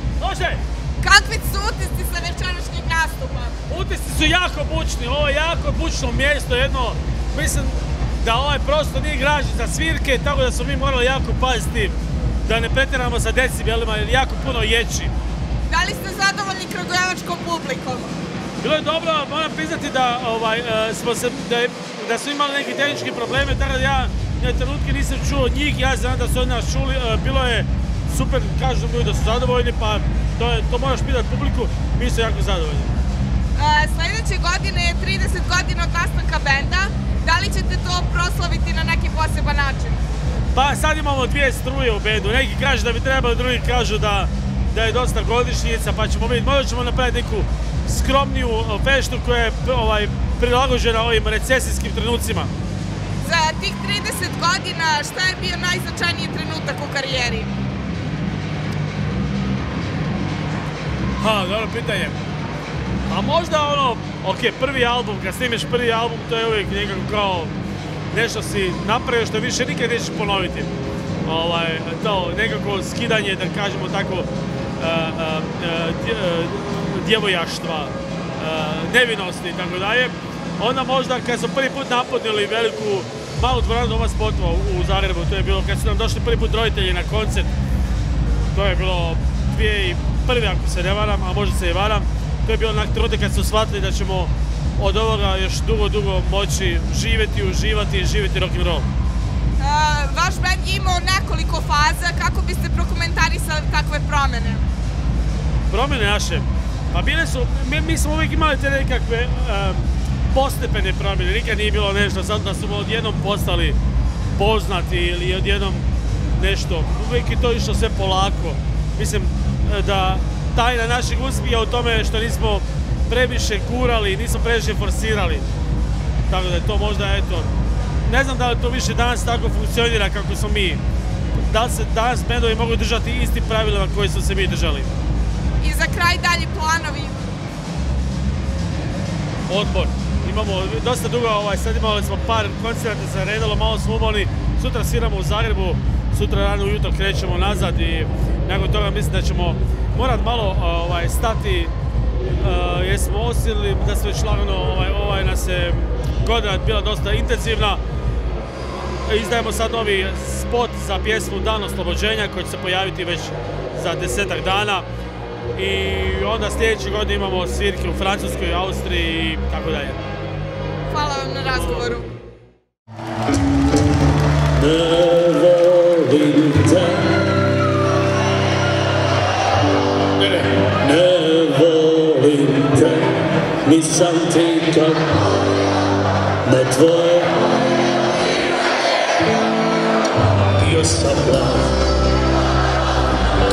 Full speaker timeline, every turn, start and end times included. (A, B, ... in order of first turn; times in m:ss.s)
0:00.2-0:00.6 A
0:01.0-0:03.6 B
0:03.7-0:15.1 A
0:15.7-0:18.1 B
0:18.6-0:32.9 A
0:33.6-0:40.0 B
0:40.5-0:52.5 A
0:53.2-0:57.5 B
1:01.2-1:02.2 A
1:03.1-1:07.5 A
1:08.1-1:10.7 A
1:11.2-1:27.5 A
1:28.5-1:38.9 A
1:39.6-1:44.6 B
1:45.7-1:53.8 A
1:54.4-1:55.8 A
1:56.4-2:05.4 A
2:06.3-2:07.5 A
2:08.0-2:10.8 A
2:11.4-2:14.9 A
2:15.6-2:17.3 B
2:19.5-2:31.7 A
2:32.4-2:37.8 A
2:39.1-2:44.9 A
2:45.6-2:50.0 A
2:50.9-2:52.1 B
2:54.6-2:57.3 C
3:00.5-3:05.2 C
3:06.4-3:07.5 C
3:10.6-3:11.8 C